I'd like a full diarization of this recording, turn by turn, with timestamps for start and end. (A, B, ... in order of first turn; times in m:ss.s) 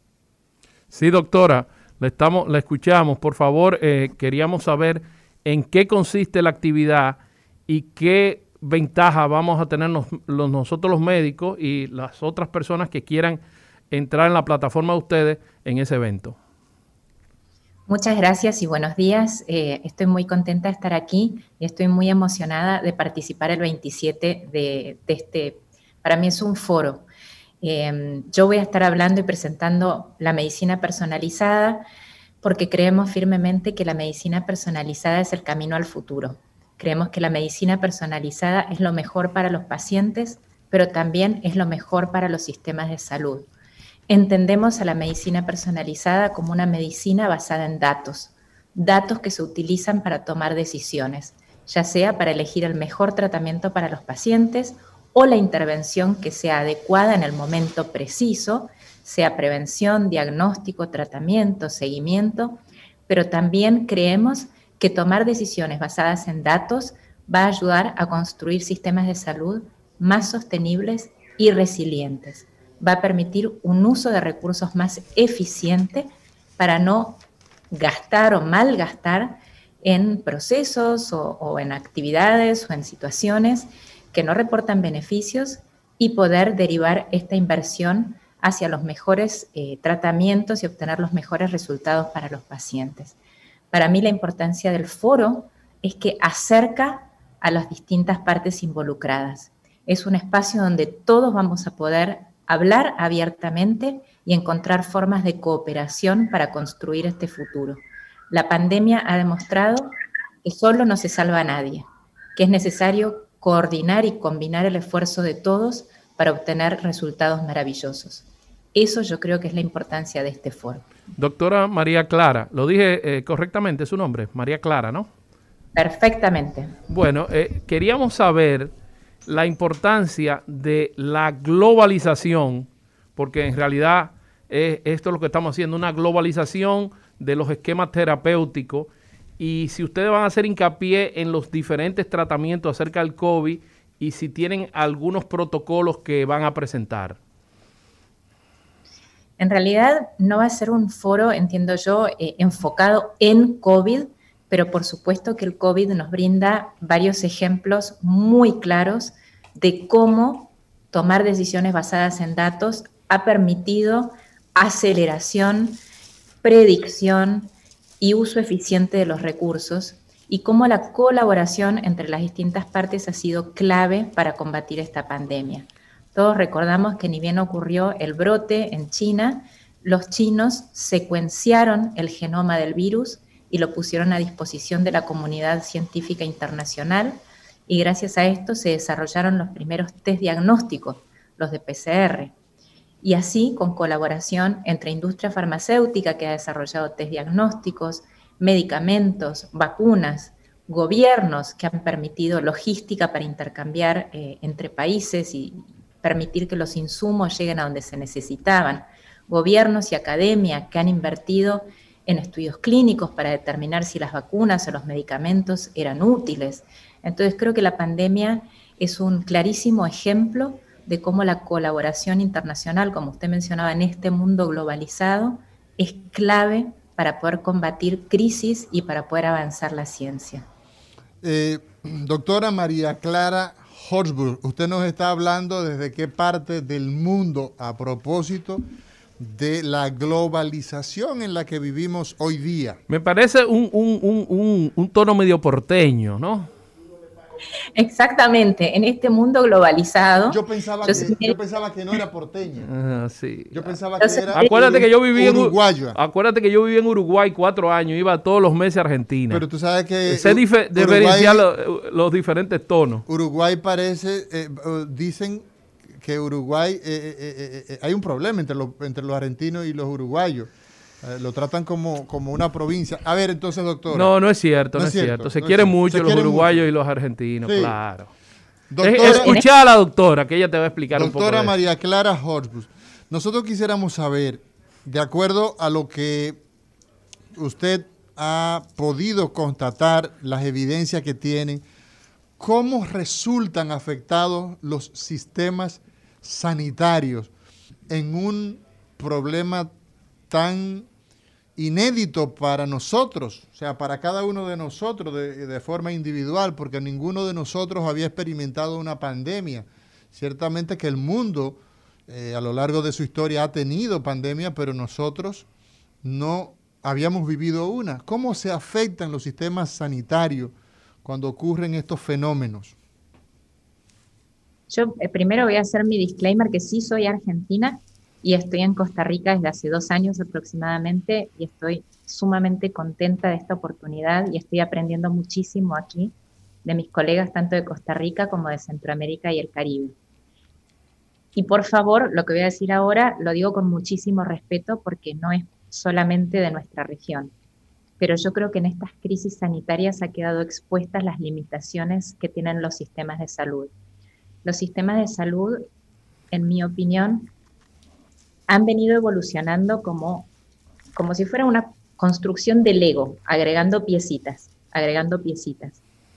0:00.9-0:16.4 A
0:17.9-0:27.0 B
0:27.6-0:31.8 B
0:32.4-0:43.5 B
0:44.1-1:33.1 B
1:33.7-1:49.9 B
1:50.4-2:00.8 B
2:01.2-2:05.1 A
2:05.7-2:06.7 B
2:06.9-2:08.7 A
2:09.2-2:27.2 A
2:29.4-2:45.8 B
2:46.4-3:12.3 B
3:13.0-3:50.4 B
3:51.2-3:58.6 C
3:59.2-4:02.8 C
4:02.9-4:06.5 A
4:07.8-4:11.4 B
4:10.3-4:12.7 C
4:12.6-4:13.7 A
4:13.5-4:16.0 C
4:14.0-4:14.6 B
4:14.3-4:19.4 A
4:19.3-4:21.4 C
4:20.1-4:23.0 A
4:23.1-4:30.5 C
4:31.0-4:34.1 C
4:33.9-4:38.1 A
4:34.7-4:36.6 C
4:37.4-4:37.8 C
4:38.7-4:39.4 C
4:38.8-4:41.5 A
4:39.0-4:39.4 B
4:40.9-4:46.4 C
4:47.3-4:51.6 C
4:52.4-4:57.3 C
4:57.9-4:59.7 C
5:00.3-5:00.9 C
5:01.6-5:15.4 C
5:16.0-5:20.5 C
5:21.0-5:22.7 C
5:24.7-5:36.1 B
5:36.6-5:39.9 B
5:41.3-5:47.3 B
5:48.0-5:53.7 B
5:54.4-5:55.6 B
5:56.3-5:57.3 B
5:58.5-6:00.3 B
6:00.9-6:05.8 B